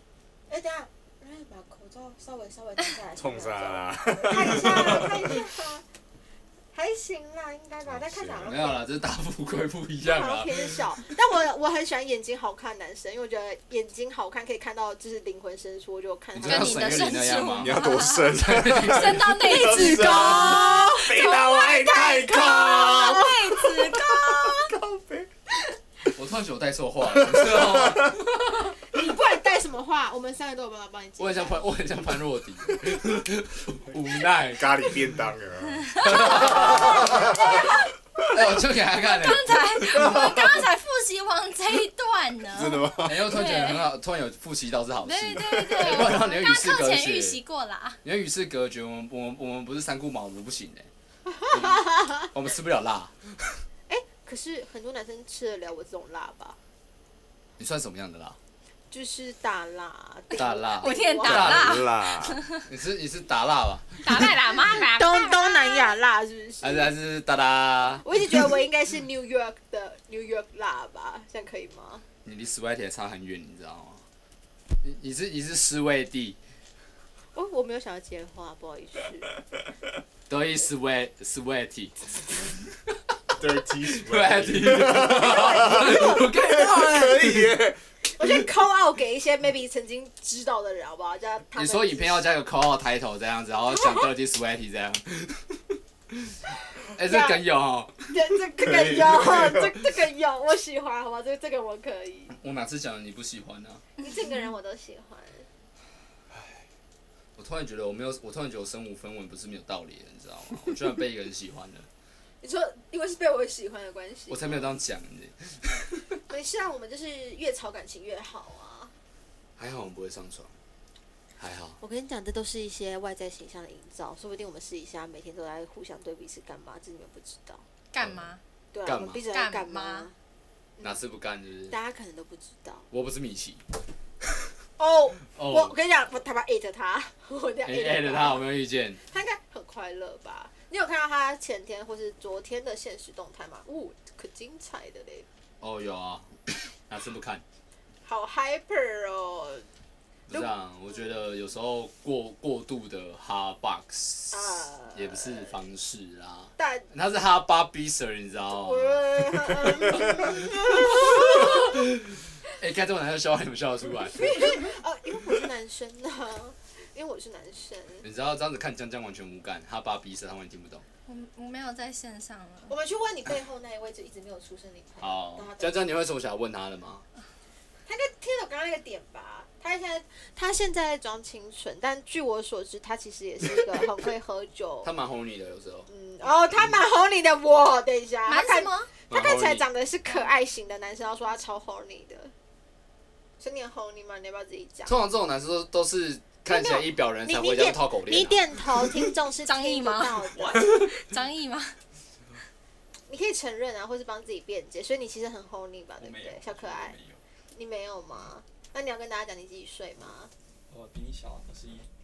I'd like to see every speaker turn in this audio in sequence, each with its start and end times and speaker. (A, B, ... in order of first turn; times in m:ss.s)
0:00.5-0:05.9 A
0:03.2-0:05.4 B
0:06.7-0:08.8 A
0:07.9-0:08.6 B
0:08.4-0:10.9 C
0:10.0-0:17.4 A
0:16.4-0:20.1 C
0:16.4-0:21.7 D
0:17.5-0:25.3 B
0:19.9-0:24.7 A
0:22.7-0:24.6 D
0:26.1-0:28.2 C
0:27.1-0:28.2 B
0:28.7-0:31.8 A
0:31.2-0:35.0 C
0:34.5-0:37.4 B
0:35.9-0:36.9 D
0:36.0-0:37.4 C
0:36.6-0:37.8 A
0:38.3-0:40.1 C
0:39.0-0:43.9 D
0:40.2-0:40.6 B
0:42.5-0:43.4 B
0:43.0-0:47.4 C
0:45.0-0:48.0 D
0:45.7-0:46.2 B
0:48.0-0:50.9 C
0:51.3-0:52.2 A
0:51.5-0:51.8 C
0:52.3-0:53.6 C
0:53.9-0:56.6 A
0:57.6-0:58.4 C
0:58.9-1:01.6 A
1:00.4-1:01.8 C
1:00.4-1:02.6 D
1:01.2-1:02.4 B
1:02.7-1:04.3 C
1:04.0-1:06.0 D
1:04.2-1:06.9 A
1:06.6-1:08.1 C
1:08.0-1:12.0 A
1:12.2-1:14.0 C
1:14.8-1:16.4 C
1:17.4-1:19.3 A
1:20.3-1:22.6 C
1:23.4-1:27.8 B
1:23.9-1:27.5 C
1:24.9-1:27.2 A
1:28.2-1:32.2 A
1:31.6-1:36.4 C
1:36.9-1:38.1 C
1:37.0-1:37.5 A
1:38.1-1:42.3 A
1:38.6-1:39.8 B
1:42.3-1:43.8 C
1:44.0-1:45.5 A
1:47.4-1:51.9 C
1:52.4-1:54.8 A
1:54.3-1:56.2 C
1:56.3-1:58.9 A
1:59.6-2:00.5 C
2:01.4-2:01.8 C
2:01.8-2:07.6 A
2:07.9-2:08.4 D
2:08.0-2:08.3 C
2:08.7-2:10.1 A
2:08.9-2:09.2 C
2:09.3-2:10.1 D
2:10.8-2:11.8 C
2:11.7-2:12.9 A
2:12.9-2:13.6 C
2:14.8-2:18.5 A
2:15.4-2:15.8 C
2:17.6-2:19.0 C
2:19.0-2:25.3 A
2:25.6-2:27.4 C
2:28.0-2:29.7 A
2:30.3-2:44.6 C
2:34.3-2:35.6 A
2:36.6-2:36.9 A
2:38.5-2:41.8 A
2:44.1-2:48.1 A
2:48.0-2:50.8 C
2:51.1-2:52.7 D
2:52.7-2:55.8 A
2:55.0-2:57.0 C
2:57.9-3:04.9 A
3:04.8-3:05.9 C
3:05.9-3:12.3 A
3:08.3-3:08.9 D
3:09.1-3:09.7 C
3:13.4-3:15.0 A
3:14.9-3:18.5 C
3:16.5-3:20.8 A
3:19.4-3:21.8 D
3:20.4-3:20.7 E
3:23.1-3:27.0 A
3:26.0-3:27.2 E
3:27.5-3:30.3 A
3:30.7-3:31.9 E